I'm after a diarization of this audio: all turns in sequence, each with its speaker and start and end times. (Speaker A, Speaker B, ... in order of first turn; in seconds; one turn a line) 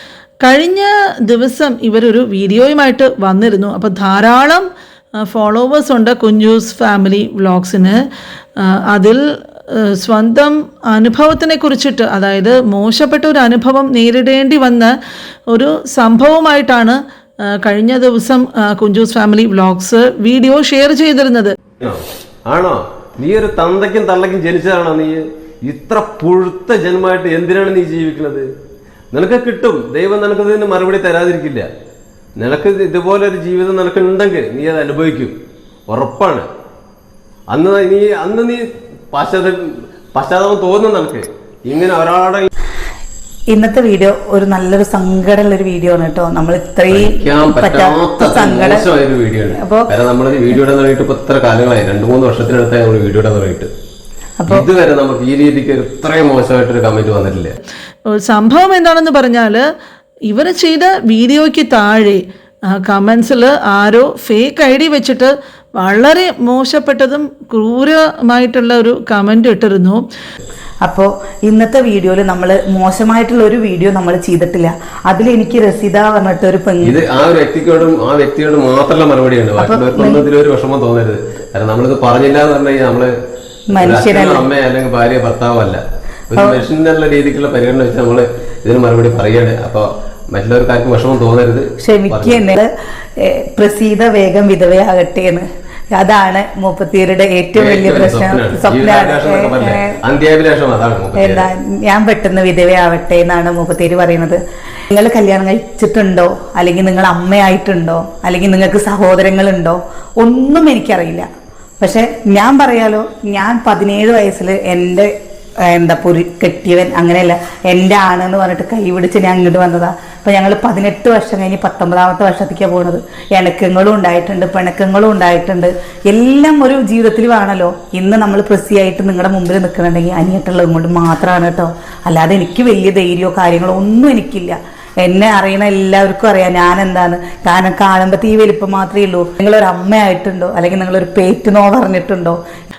Speaker A: 0.4-4.6
Speaker A: 5.2-8.0
Speaker A: 8.6-14.9
Speaker A: 15.5-21.6
Speaker B: 21.8-28.5
Speaker B: 29.1-31.7
Speaker B: 32.4-35.3
Speaker B: 35.9-36.5
Speaker B: 37.5-39.6
Speaker B: 40.1-42.5
Speaker C: 43.5-48.9
Speaker B: 46.9-53.7
Speaker C: 49.6-49.9
Speaker C: 54.4-54.6
Speaker B: 54.5-57.6
Speaker A: 58.1-59.6
Speaker A: 60.3-62.2
Speaker A: 62.7-70.0
Speaker C: 70.8-77.0
Speaker B: 76.8-83.1
Speaker C: 79.6-80.2
Speaker C: 83.7-84.5
Speaker B: 83.8-92.4
Speaker C: 86.4-86.6
Speaker C: 91.8-100.0
Speaker B: 97.6-101.5
Speaker C: 101.2-104.4
Speaker C: 104.9-111.3
Speaker C: 111.8-115.1
Speaker C: 115.7-142.4